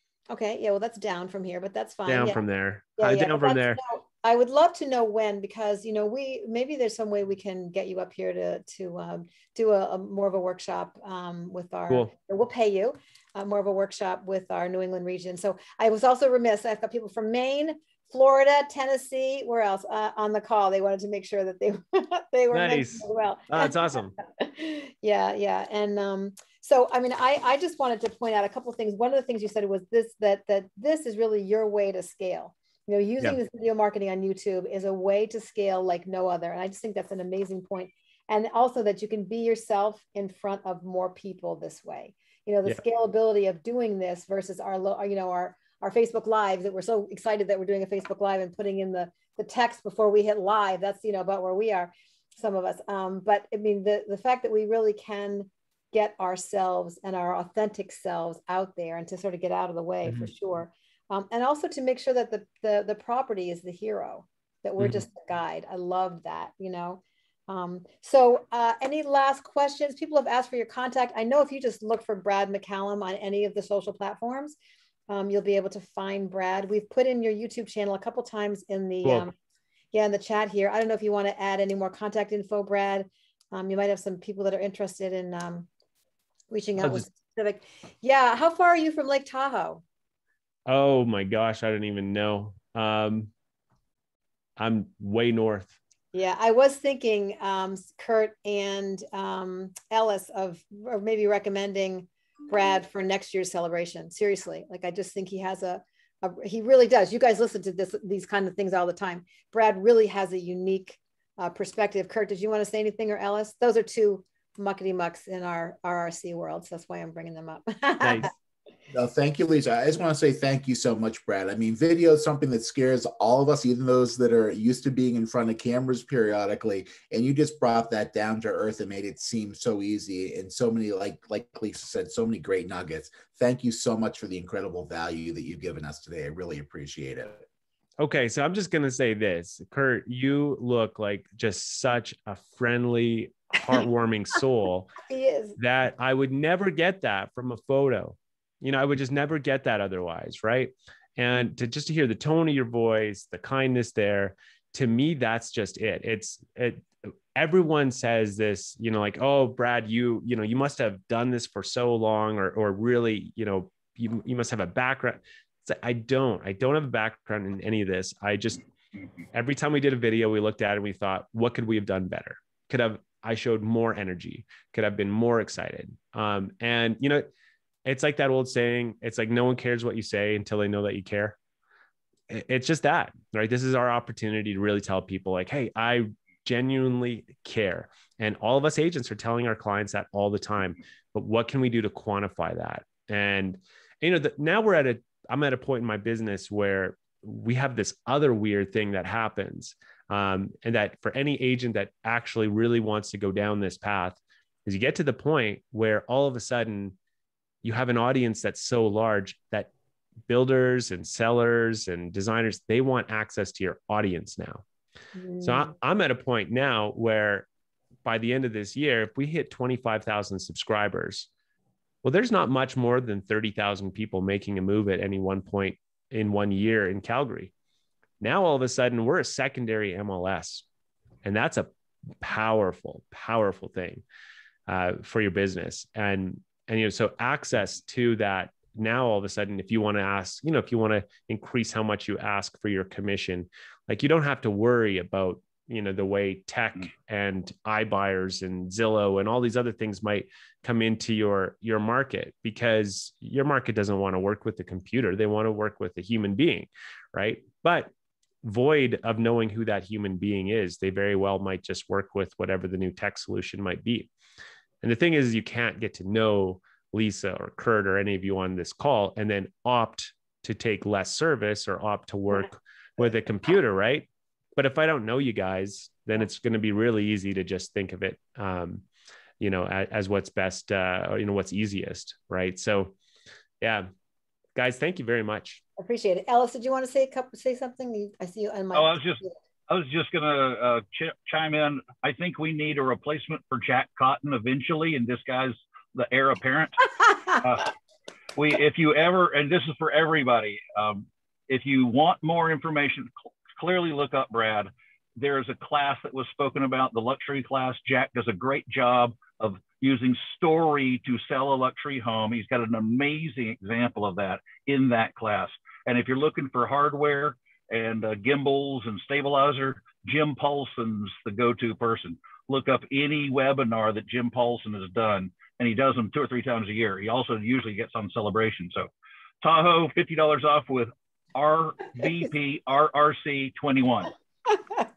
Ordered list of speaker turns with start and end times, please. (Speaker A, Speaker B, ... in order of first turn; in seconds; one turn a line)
Speaker A: 0.3-2.4
Speaker B: 2.1-3.8
Speaker A: 3.0-74.6
Speaker B: 22.5-24.1
Speaker A: 75.1-79.3
Speaker A: 79.9-85.7
Speaker A: 86.5-89.8
Speaker B: 86.8-87.1
Speaker B: 90.7-93.3
Speaker B: 94.6-95.8
Speaker A: 96.1-118.3
Speaker B: 118.0-118.3
Speaker C: 118.9-137.4
Speaker B: 138.0-144.9
Speaker A: 145.1-145.6
Speaker B: 145.6-168.6
Speaker B: 169.3-177.3
Speaker B: 177.8-181.4
Speaker B: 182.3-207.0
Speaker B: 207.6-209.7
Speaker B: 210.3-214.6
Speaker A: 215.2-215.7
Speaker B: 215.4-217.5
Speaker B: 218.1-221.3
Speaker B: 222.0-227.5
Speaker B: 228.2-230.7
Speaker B: 231.2-234.0
Speaker B: 234.7-257.9
Speaker B: 258.4-264.1
Speaker B: 264.8-278.8
Speaker B: 279.4-282.9
Speaker B: 283.6-283.9
Speaker B: 284.6-285.6
Speaker A: 285.8-289.4
Speaker D: 288.7-297.7
Speaker D: 298.4-328.9
Speaker D: 329.4-334.1